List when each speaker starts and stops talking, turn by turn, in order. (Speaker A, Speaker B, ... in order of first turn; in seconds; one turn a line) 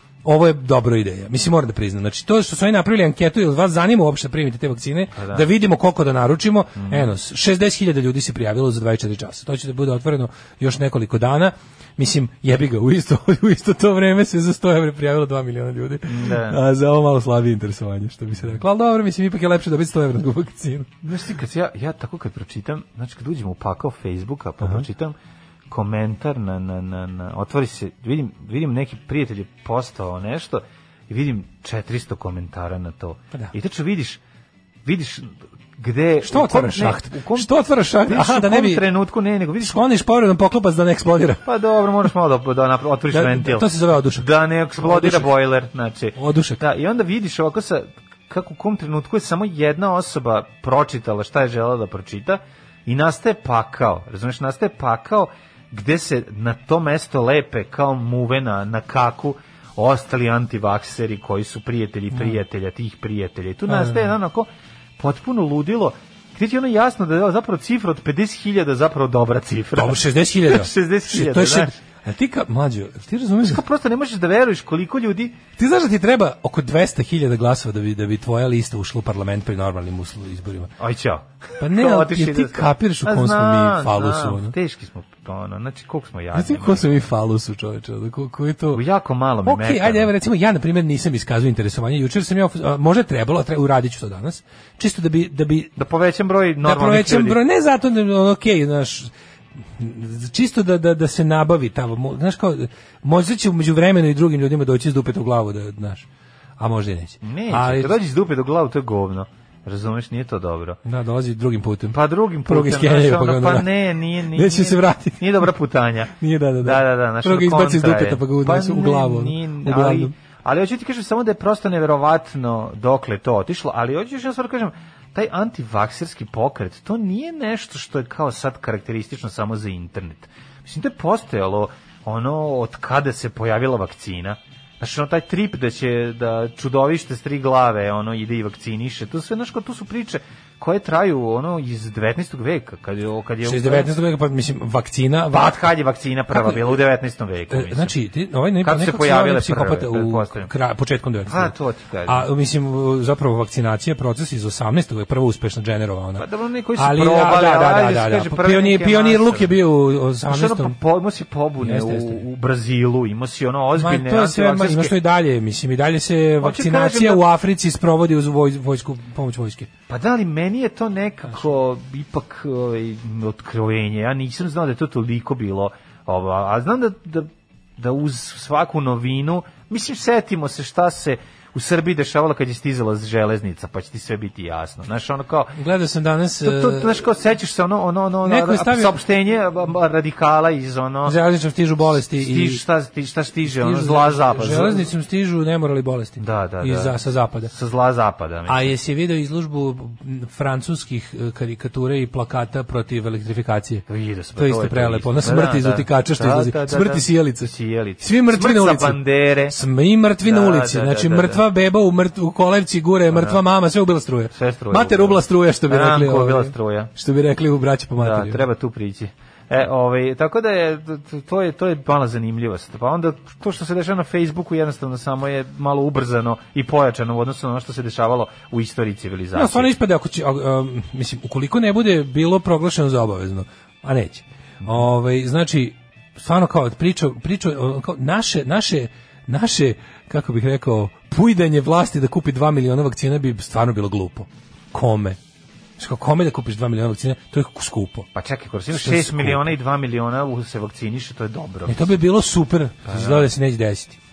Speaker A: 0.2-20.9
Speaker B: 5.2-5.5
Speaker B: 6.8-7.1
Speaker B: 16.1-16.6
Speaker B: 21.0-25.2
Speaker B: 25.7-34.2
Speaker B: 34.9-39.8
Speaker A: 36.2-38.9
Speaker A: 39.6-41.4
Speaker B: 41.5-64.5
Speaker A: 43.1-45.3
Speaker A: 46.2-46.6
Speaker A: 62.1-62.4
Speaker A: 63.7-64.1
Speaker B: 65.0-71.7
Speaker A: 69.8-73.6
Speaker B: 73.4-75.4
Speaker A: 75.6-80.7
Speaker B: 80.8-87.0
Speaker A: 81.6-84.5
Speaker A: 86.3-88.8
Speaker B: 88.7-90.1
Speaker A: 89.5-95.8
Speaker B: 95.8-97.4
Speaker A: 96.6-99.1
Speaker A: 99.8-106.1
Speaker A: 106.6-108.0
Speaker B: 107.2-110.8
Speaker A: 110.8-115.5
Speaker B: 111.9-143.9
Speaker A: 116.2-120.1
Speaker A: 143.4-145.7
Speaker B: 145.3-147.9
Speaker A: 146.3-146.8
Speaker A: 147.5-151.6
Speaker B: 148.6-150.5
Speaker B: 151.3-152.3
Speaker A: 152.1-160.8
Speaker B: 156.2-159.6
Speaker B: 160.3-164.9
Speaker A: 161.6-162.2
Speaker A: 163.8-169.7
Speaker B: 166.4-167.3
Speaker B: 169.9-185.6
Speaker A: 185.6-187.0
Speaker B: 186.4-191.2
Speaker A: 188.2-189.0
Speaker A: 191.1-192.6
Speaker B: 191.9-194.9
Speaker A: 193.4-197.5
Speaker B: 196.2-198.7
Speaker A: 198.5-218.4
Speaker B: 203.9-209.6
Speaker B: 210.2-211.4
Speaker B: 213.1-213.4
Speaker B: 214.3-216.9
Speaker B: 218.0-229.7
Speaker A: 229.3-245.2
Speaker A: 245.8-248.1
Speaker B: 248.2-252.0
Speaker A: 248.7-249.5
Speaker A: 251.7-254.0
Speaker B: 252.9-253.3